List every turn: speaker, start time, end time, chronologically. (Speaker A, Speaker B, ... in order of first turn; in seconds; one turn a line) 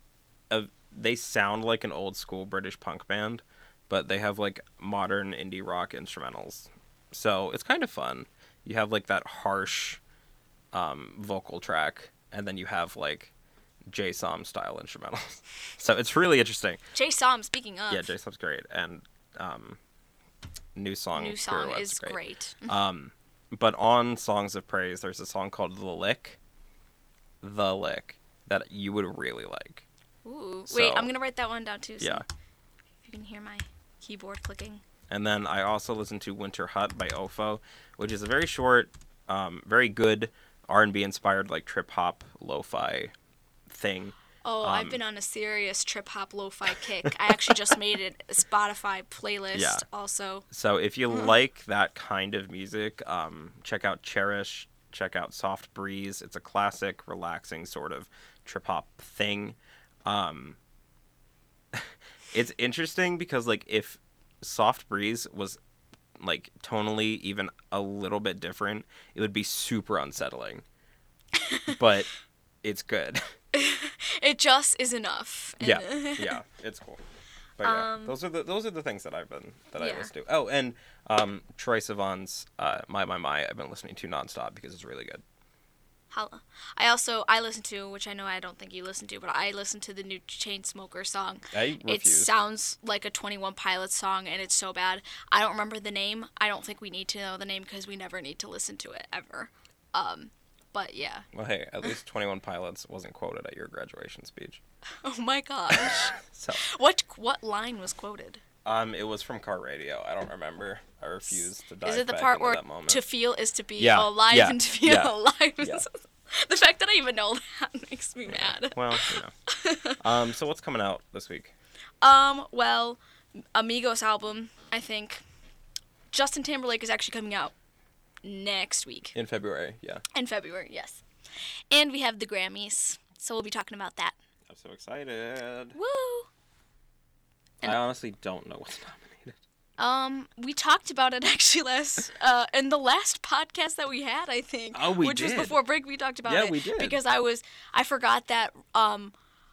Speaker A: 0.5-10.0
Speaker A: 10.7-13.3
Speaker A: 13.9-16.8
Speaker B: 16.9-18.1
Speaker A: 17.9-19.8
Speaker A: 20.8-26.4
Speaker B: 21.1-22.7
Speaker A: 27.4-29.9
Speaker B: 30.2-32.2
Speaker A: 30.7-31.1
Speaker B: 33.0-34.8
Speaker A: 35.1-43.1
Speaker A: 43.7-45.0
Speaker B: 44.4-50.4
Speaker A: 49.5-49.8
Speaker A: 50.5-60.6
Speaker A: 61.7-65.6
Speaker A: 66.2-70.6
Speaker B: 71.3-71.7
Speaker A: 71.7-72.1
Speaker A: 72.6-73.2
Speaker B: 73.5-76.4
Speaker A: 75.6-77.0
Speaker A: 77.6-85.2
Speaker B: 77.6-78.1
Speaker B: 79.8-80.1
Speaker B: 86.1-101.2
Speaker A: 91.5-92.3
Speaker A: 101.3-104.6
Speaker B: 105.0-108.4
Speaker A: 105.7-106.7
Speaker A: 108.6-113.0
Speaker B: 111.3-120.0
Speaker A: 113.8-115.8
Speaker A: 118.2-119.3
Speaker A: 120.0-121.5
Speaker B: 122.0-125.2
Speaker B: 126.1-127.5
Speaker B: 128.2-129.1
Speaker A: 129.1-130.0
Speaker B: 130.1-131.0
Speaker B: 131.7-134.1
Speaker A: 134.5-135.8
Speaker B: 135.7-136.3
Speaker A: 137.6-139.4
Speaker B: 139.8-149.1
Speaker A: 144.7-145.6
Speaker A: 146.2-147.0